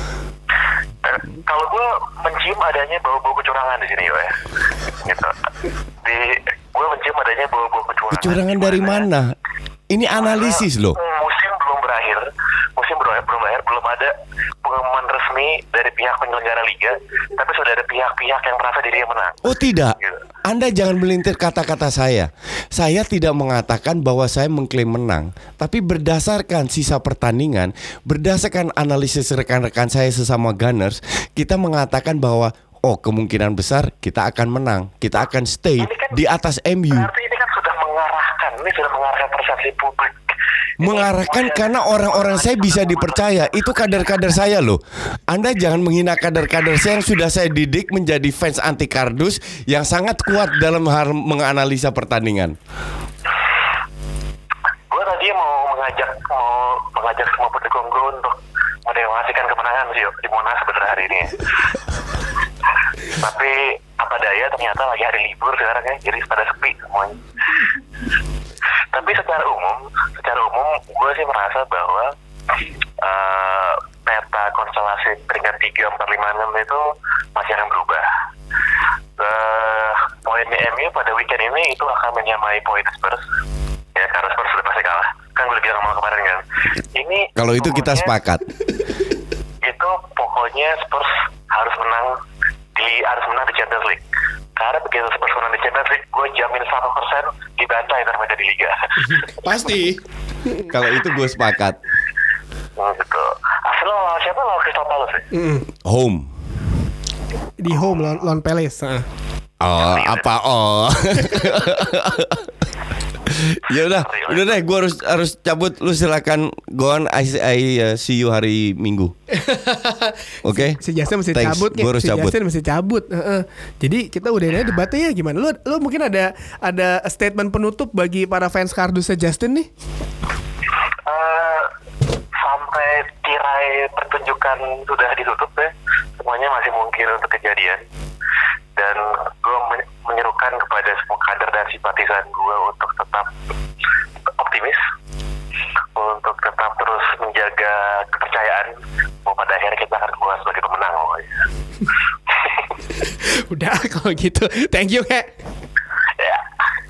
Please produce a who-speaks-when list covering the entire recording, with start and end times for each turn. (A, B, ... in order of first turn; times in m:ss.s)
0:01.0-0:04.4 A
0:04.9-0:05.3 A
0:06.0-0:09.1 A
0:08.1-0:09.3 B
0:09.9-0:11.0 B
0:10.2-0:14.1 A
0:14.6-0:20.2 A
0:19.4-0:37.1 B
0:35.8-0:36.3 A
0:36.9-0:40.1 A
0:40.8-0:52.5 B
0:40.8-0:44.0 A
0:54.9-1:01.4 A
1:03.1-1:07.6 A
1:08.9-1:12.1 A
1:13.0-1:16.8 A
1:17.3-1:18.0 A
1:19.2-1:23.2 A
1:23.9-1:26.4 A
1:26.9-1:28.1 A
1:27.4-1:28.4 B
1:29.6-1:32.1 A
1:32.8-1:34.0 A
1:34.6-1:39.4 A
1:39.1-1:40.0 C
1:40.6-1:41.8 B
1:42.8-1:45.3 A
1:45.3-1:45.6 C
1:45.8-1:46.3 B
1:47.6-1:49.0 C
1:49.6-1:52.5 B
1:49.7-1:50.3 A
1:53.2-1:59.1 B
1:53.7-1:54.6 A
1:59.3-2:09.7 C
2:00.4-2:00.8 B
2:01.3-2:02.3 B
2:11.0-2:11.7 A
2:12.4-2:17.8 A
2:18.8-2:23.3 A
2:24.4-2:24.8 A
2:25.9-2:28.7 A
2:29.2-2:31.3 A
2:32.9-2:35.3 C